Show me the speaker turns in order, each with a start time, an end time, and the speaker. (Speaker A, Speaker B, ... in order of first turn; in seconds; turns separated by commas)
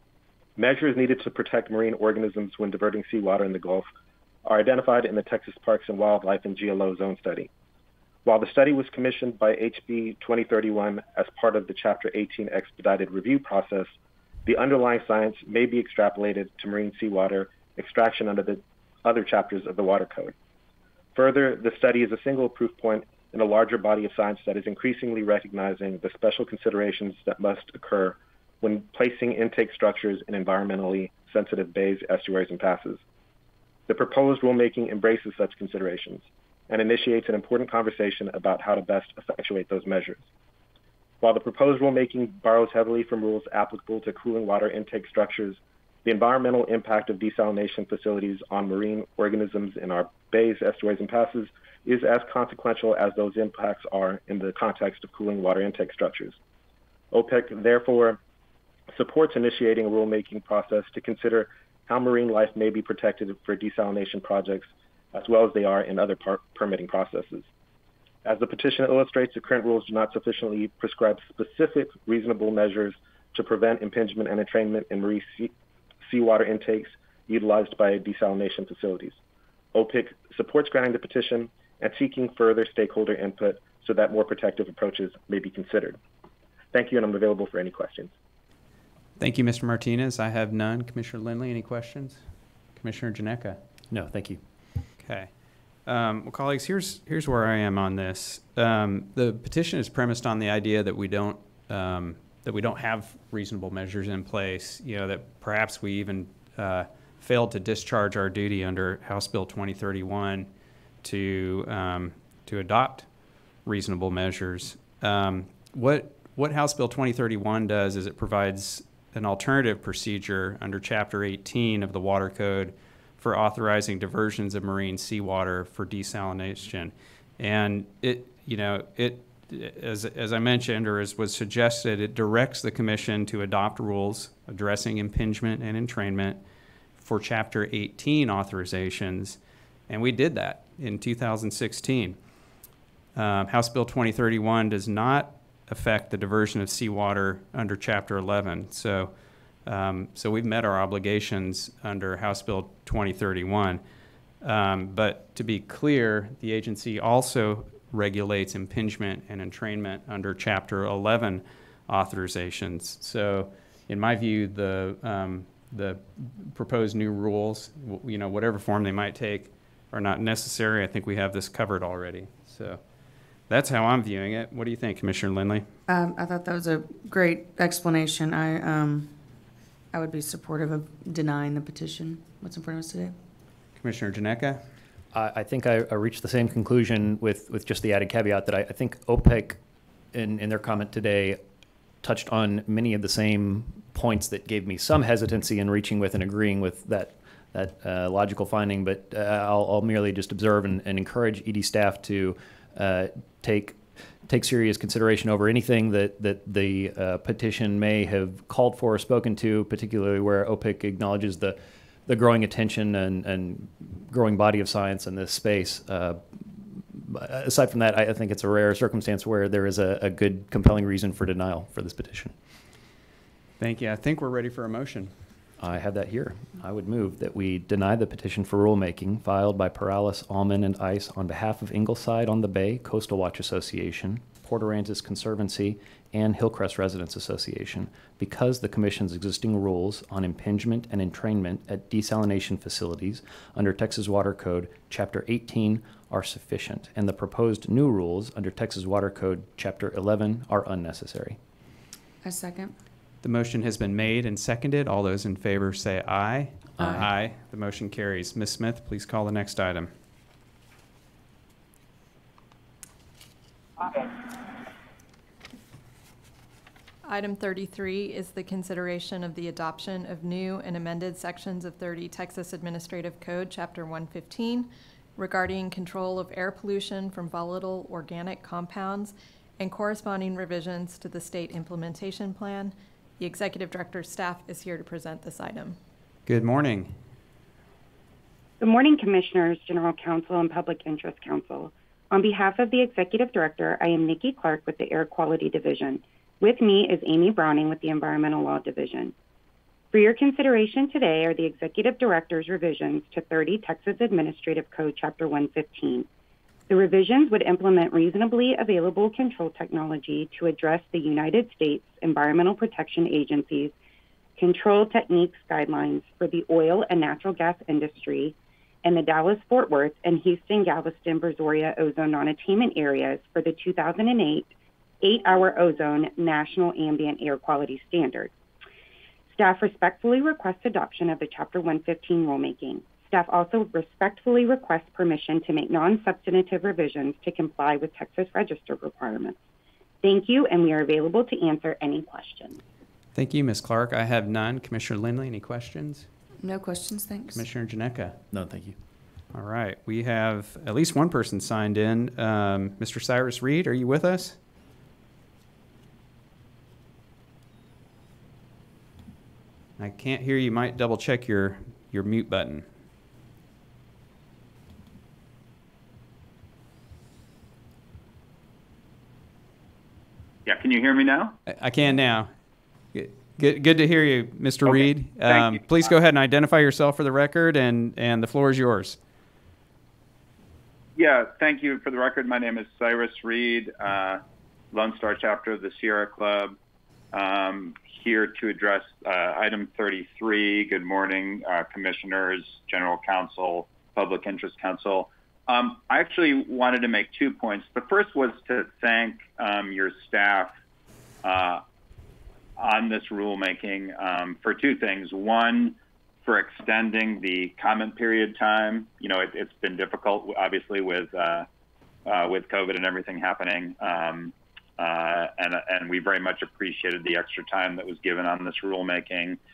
Speaker A: 0.6-3.9, Speaker A: 4.4-7.5, Speaker A: 8.2-13.9, Speaker A: 14.4-20.3, Speaker A: 21.1-33.0, Speaker A: 33.9-40.3, Speaker A: 41.2-56.4, Speaker A: 57.1-58.2, Speaker A: 58.9-67.5, Speaker A: 68.2-75.5, Speaker A: 76.0-79.2, Speaker A: 79.7-86.0, Speaker A: 86.7-88.1, Speaker B: 89.2-92.2, Speaker B: 92.8-93.6, Speaker C: 93.9-94.4, Speaker B: 95.0-95.3, Speaker B: 95.9-110.5, Speaker B: 111.0-113.1, Speaker B: 113.7-136.4, Speaker B: 137.0-139.4, Speaker B: 139.9-142.2, Speaker B: 143.2-149.1, Speaker B: 149.7-153.8, Speaker B: 154.4-172.8, Speaker B: 173.5-175.7, Speaker D: 175.9-179.2, Speaker D: 179.9-183.2, Speaker B: 183.8-184.6, Speaker C: 185.1-189.6, Speaker C: 190.1-191.4, Speaker C: 192.0-222.3, Speaker B: 223.6-225.1, Speaker C: 225.6-251.4, Speaker D: 252.2-252.7, Speaker B: 253.2-259.9, Speaker D: 256.8-257.1, Speaker E: 267.1-285.8, Speaker B: 286.3-286.9, Speaker F: 288.6-299.1, Speaker F: 299.9-306.1, Speaker F: 306.7-313.7, Speaker F: 314.4-328.3, Speaker F: 329.3-339.4, Speaker F: 340.0-342.6, Speaker B: 343.1-346.1, Speaker D: 346.4-347.4, Speaker B: 347.3-348.2, Speaker C: 348.3-348.8, Speaker B: 349.3-354.4, Speaker B: 359.8-362.6, Speaker G: 370.5-371.3, Speaker B: 371.5-372.3, Speaker B: 372.9-379.0, Speaker G: 375.3-375.6, Speaker G: 381.0-386.6, Speaker G: 387.1-400.5, Speaker G: 401.2-401.6, Speaker G: 402.6-411.5, Speaker G: 412.1-419.4